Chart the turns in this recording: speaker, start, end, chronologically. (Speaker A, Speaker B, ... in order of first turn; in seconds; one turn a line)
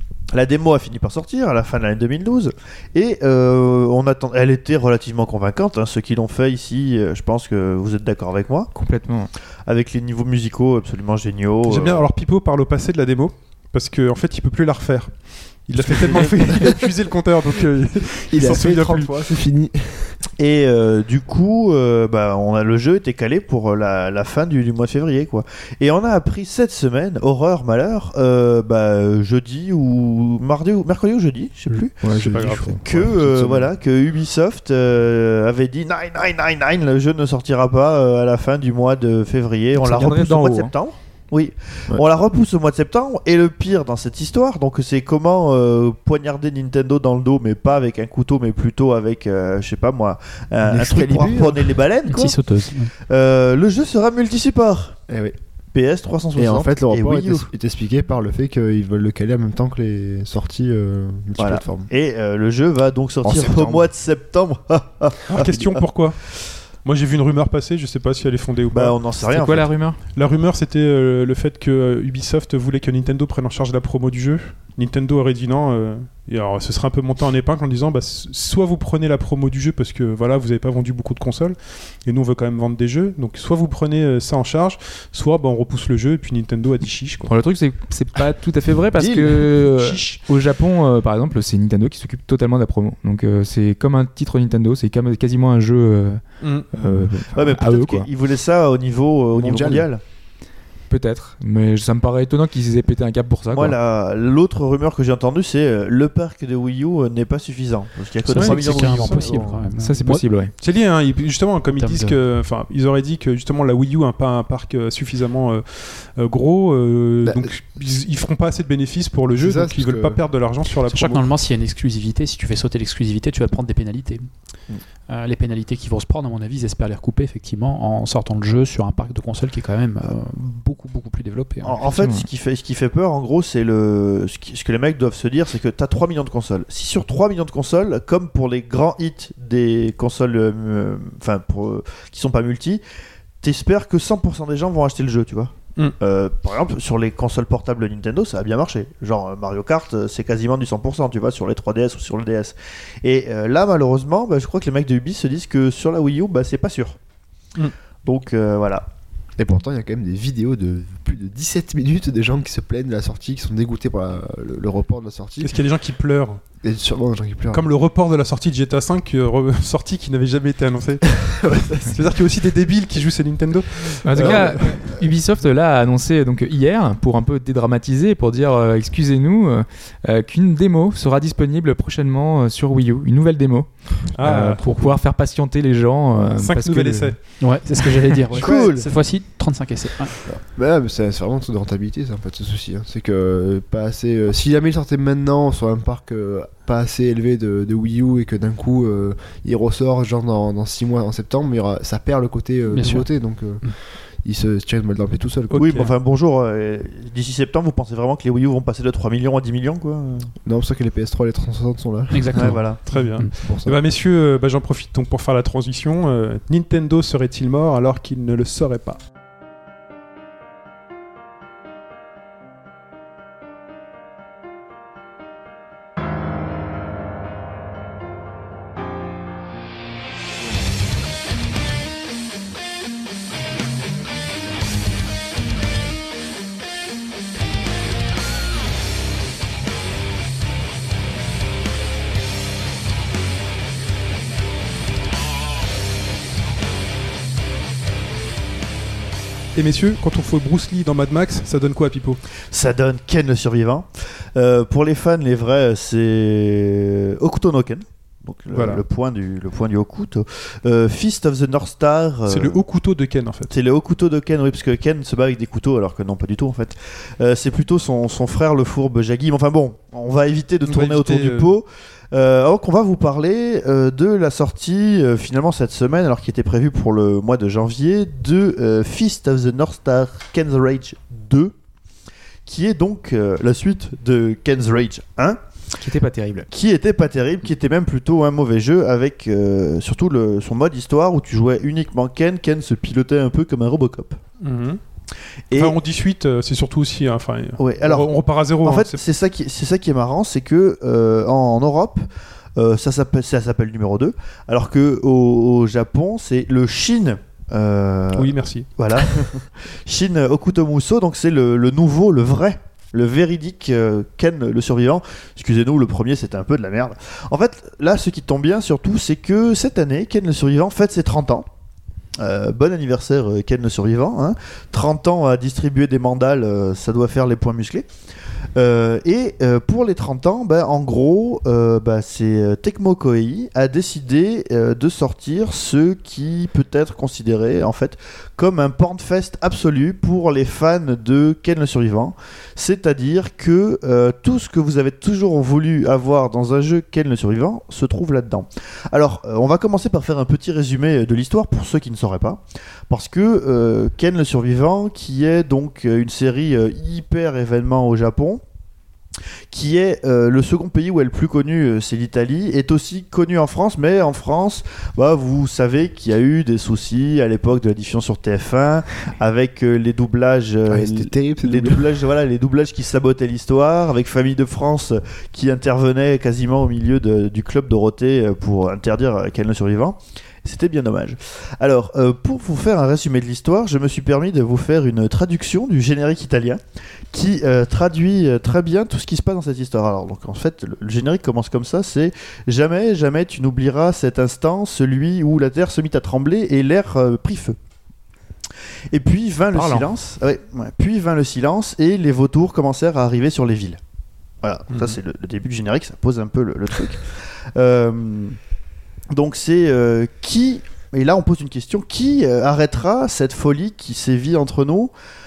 Speaker A: 0.3-8.7
Speaker B: 8.8-9.3
Speaker A: 9.7-12.1
Speaker C: 11.7-19.1
Speaker A: 15.9-16.2
Speaker D: 16.2-16.8
Speaker D: 18.3-20.2
Speaker A: 20.4-55.0
Speaker D: 31.7-33.7
Speaker C: 32.1-32.8
Speaker B: 39.8-40.7
Speaker D: 50.6-51.8
Speaker E: 52.1-52.9
Speaker D: 55.1-55.4
Speaker A: 55.7-57.5
Speaker D: 56.4-61.9
Speaker A: 61.4-65.8
Speaker D: 63.2-63.9
Speaker C: 65.3-66.2
Speaker C: 66.8-69.0
Speaker A: 68.7-69.7
Speaker B: 69.2-70.0
Speaker C: 70.2-87.3
Speaker B: 87.3-96.2
Speaker C: 89.8-90.2
Speaker C: 96.4-96.7
Speaker B: 96.7-98.1
Speaker A: 97.3-100.0
Speaker D: 99.3-99.9
Speaker B: 100.9-103.8
Speaker A: 103.5-109.6
Speaker E: 108.3-110.3
Speaker C: 108.3-109.2
Speaker D: 109.3-109.6
Speaker B: 109.8-110.5
Speaker C: 110.6-121.3
Speaker E: 111.8-112.2
Speaker D: 117.2-117.5
Speaker D: 119.4-120.2
Speaker E: 120.9-124.3
Speaker E: 125.1-131.8
Speaker A: 131.6-142.8
Speaker B: 131.9-132.3
Speaker A: 143.4-157.0
Speaker A: 158.1-158.9
Speaker D: 159.4-165.6
Speaker C: 165.4-166.4
Speaker D: 166.6-167.7
Speaker C: 167.5-174.8
Speaker D: 171.3-171.9
Speaker B: 174.0-187.2
Speaker D: 174.2-175.0
Speaker C: 184.2-184.9
Speaker C: 186.4-187.4
Speaker E: 187.4-190.2
Speaker A: 188.3-188.9
Speaker D: 190.3-205.8
Speaker E: 202.7-203.7
Speaker C: 205.5-205.9
Speaker A: 205.6-210.3
Speaker D: 210.4-213.8
Speaker E: 212.1-213.3
Speaker A: 212.3-212.8
Speaker C: 212.9-219.0
Speaker C: 249.6-252.2
Speaker A: 252.5-262.6
Speaker C: 258.5-258.8
Speaker C: 262.3-263.5
Speaker A: 263.5-281.5
Speaker C: 270.7-271.5
Speaker A: 282.5-285.4
Speaker B: 285.8-286.5
Speaker A: 286.5-294.2
Speaker C: 294.4-294.8
Speaker A: 295.5-295.8
Speaker C: 295.5-299.0
Speaker A: 297.6-321.5
Speaker C: 308.1-309.0
Speaker A: 322.2-327.9
Speaker A: 328.6-358.4
Speaker A: 359.5-386.6
Speaker D: 370.7-372.0
Speaker A: 387.1-397.6
Speaker A: 398.9-403.8
Speaker B: 399.5-399.9
Speaker A: 404.4-408.4
Speaker C: 404.7-405.0
Speaker A: 409.1-414.9